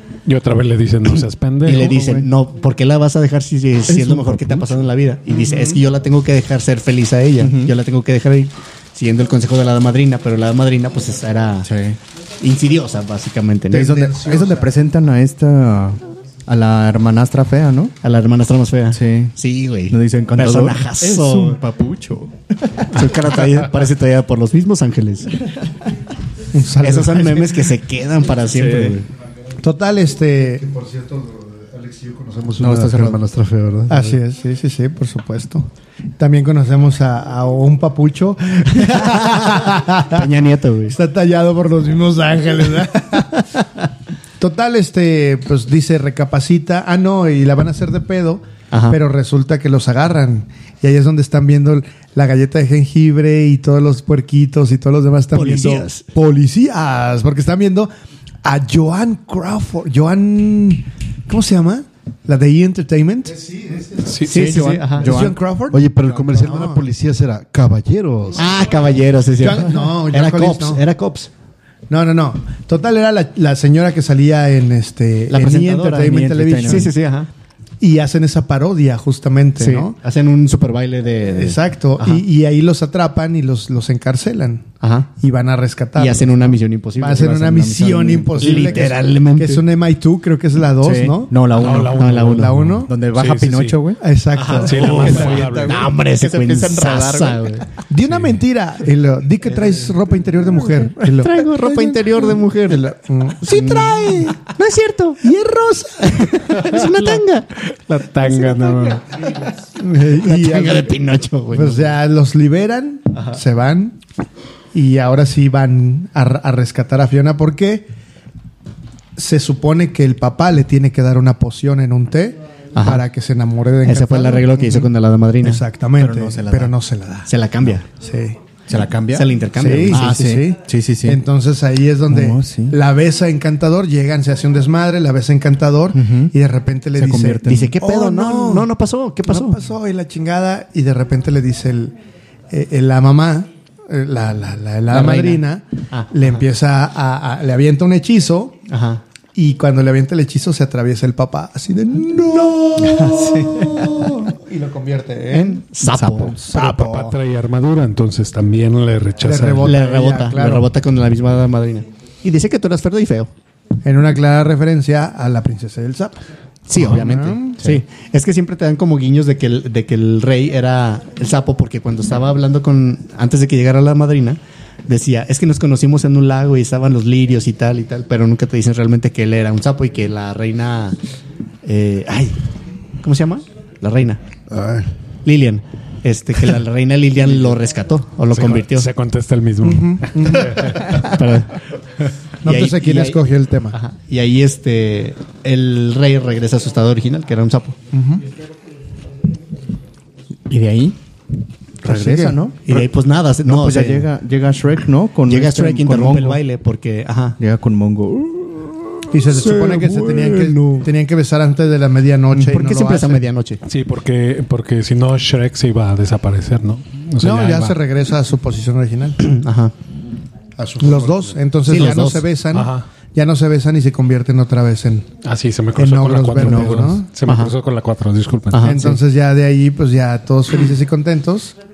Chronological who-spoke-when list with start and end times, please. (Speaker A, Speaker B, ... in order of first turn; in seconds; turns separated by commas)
Speaker A: 0.3-1.9, Speaker B: 1.6-11.7, Speaker C: 1.7-2.3, Speaker C: 3.9-4.8, Speaker C: 7.4-7.7, Speaker C: 11.6-12.0, Speaker B: 12.4-14.1, Speaker C: 13.7-17.9, Speaker D: 14.0-14.7, Speaker B: 18.0-21.6, Speaker C: 18.9-19.3, Speaker C: 19.9-22.9, Speaker B: 22.9-25.3, Speaker D: 26.5-27.6, Speaker B: 26.8-29.1, Speaker C: 28.5-29.0, Speaker D: 29.6-30.7, Speaker E: 30.6-34.2, Speaker C: 32.6-33.2, Speaker D: 33.9-35.7, Speaker D: 36.2-40.3, Speaker B: 38.9-41.0, Speaker D: 40.9-43.5, Speaker D: 44.4-57.9, Speaker B: 48.7-49.0, Speaker B: 55.3-56.0, Speaker D: 58.4-63.6, Speaker A: 64.0-64.5, Speaker B: 64.2-65.1, Speaker C: 64.3-65.4, Speaker D: 64.9-66.8, Speaker E: 65.7-68.6, Speaker C: 65.9-66.2, Speaker B: 68.4-71.3, Speaker D: 69.4-70.8, Speaker D: 71.9-76.9, Speaker B: 75.3-77.3, Speaker C: 76.0-76.9, Speaker D: 77.8-80.0, Speaker B: 79.6-82.2, Speaker D: 81.3-91.3, Speaker B: 84.8-85.1, Speaker B: 86.0-87.2, Speaker C: 87.1-89.1, Speaker B: 88.4-89.7, Speaker C: 90.8-97.6, Speaker A: 91.5-93.8, Speaker B: 92.0-92.5, Speaker D: 92.2-92.9, Speaker D: 94.0-94.8, Speaker B: 94.4-97.7, Speaker A: 94.6-95.9, Speaker D: 97.9-104.4, Speaker B: 101.1-105.4, Speaker D: 105.2-106.4, Speaker B: 106.0-107.5, Speaker A: 106.5-109.1, Speaker B: 108.3-108.5, Speaker D: 109.8-114.0, Speaker B: 110.0-111.9, Speaker D: 114.7-117.9, Speaker D: 119.2-124.9, Speaker B: 122.8-123.0, Speaker B: 123.8-125.6, Speaker D: 125.4-127.3, Speaker C: 126.0-126.8, Speaker B: 127.3-127.9, Speaker D: 127.9-128.4, Speaker C: 128.7-129.3, Speaker B: 129.1-130.2, Speaker D: 129.6-138.7, Speaker C: 129.9-131.2, Speaker C: 132.1-132.8, Speaker C: 135.9-136.3, Speaker C: 137.0-137.8, Speaker B: 137.4-139.6, Speaker D: 139.3-141.9, Speaker D: 142.5-148.6, Speaker B: 144.9-146.4, Speaker B: 148.7-149.0, Speaker D: 149.3-155.7, Speaker C: 152.8-154.1, Speaker B: 155.3-156.7, Speaker C: 155.8-156.4, Speaker D: 156.4-157.2, Speaker A: 156.6-159.8, Speaker D: 159.2-160.7, Speaker B: 159.6-163.3, Speaker D: 163.8-166.2, Speaker B: 166.7-181.0, Speaker D: 166.8-167.6, Speaker B: 181.6-182.4, Speaker B: 183.0-184.2, Speaker E: 184.5-184.9, Speaker B: 185.2-188.9, Speaker A: 188.3-191.0, Speaker D: 189.6-191.1, Speaker B: 190.8-191.6, Speaker D: 192.4-193.8, Speaker B: 192.4-193.2, Speaker B: 193.7-197.8, Speaker D: 197.9-198.2, Speaker C: 200.5-201.0, Speaker C: 201.8-202.9, Speaker D: 201.8-202.4, Speaker B: 202.7-204.1, Speaker C: 203.4-206.4, Speaker B: 205.3-207.4, Speaker C: 207.4-210.9, Speaker D: 209.1-213.2, Speaker B: 212.3-213.6, Speaker A: 213.7-217.8, Speaker D: 217.2-219.2, Speaker B: 219.2-219.7, Speaker E: 220.6-221.5, Speaker D: 220.8-225.1, Speaker B: 221.7-222.3, Speaker A: 222.5-222.9, Speaker A: 225.2-228.9, Speaker D: 225.8-227.1, Speaker B: 227.3-227.5, Speaker B: 228.5-229.0, Speaker D: 228.6-231.6